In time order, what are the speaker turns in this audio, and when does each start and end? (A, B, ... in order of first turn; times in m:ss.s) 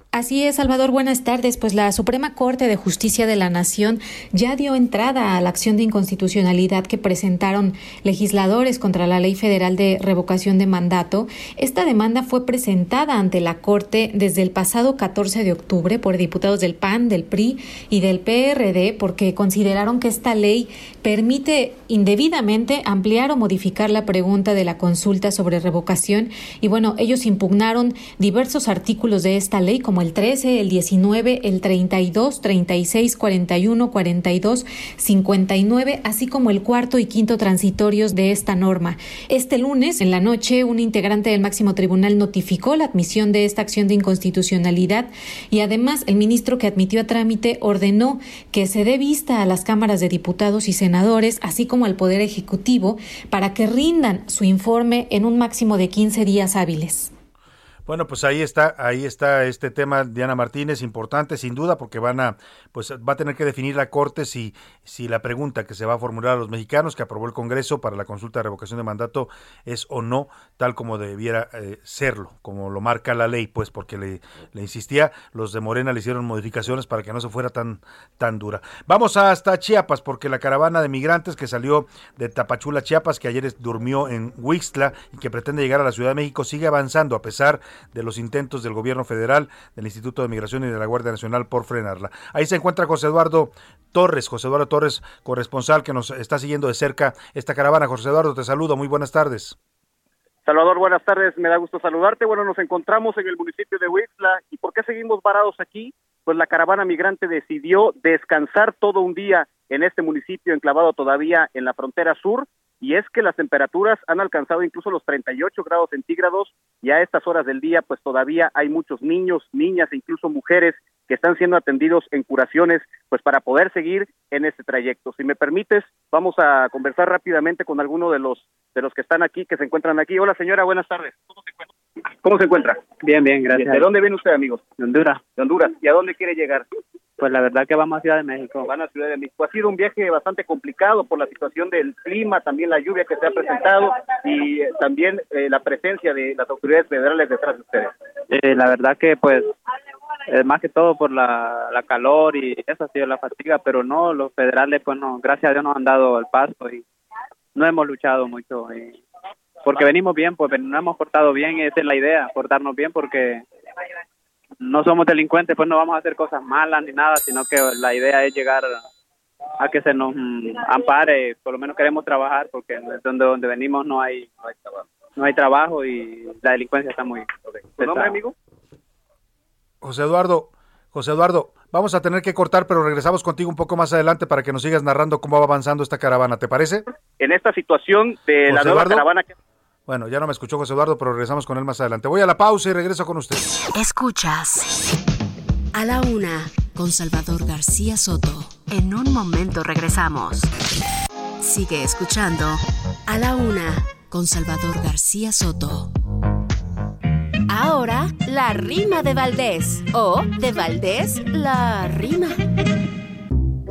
0:00.1-0:57.1 A
0:57.9-1:39.6 B
1:40.5-2:11.2 C
2:12.2-2:12.8 C
2:12.9-2:13.9 D
2:13.6-2:14.6 C
2:14.8-2:15.3 D
2:15.3-2:16.7 C
2:17.2-2:18.7 D
2:18.6-2:27.9 C
2:28.3-2:29.5 D
2:30.3-2:36.8 D
2:37.6-2:39.0 D
2:39.6-2:43.4 D
2:44.6-2:48.8 D
2:49.6-2:58.2 D
2:57.8-2:58.3 C
2:59.8-3:06.8 B
3:07.2-3:09.3 C
3:08.5-3:09.0 B
3:09.9-3:13.5 B
3:13.7-3:14.9 E
3:15.7-3:20.5 E
3:21.4-3:25.9 E
3:27.5-3:32.4 E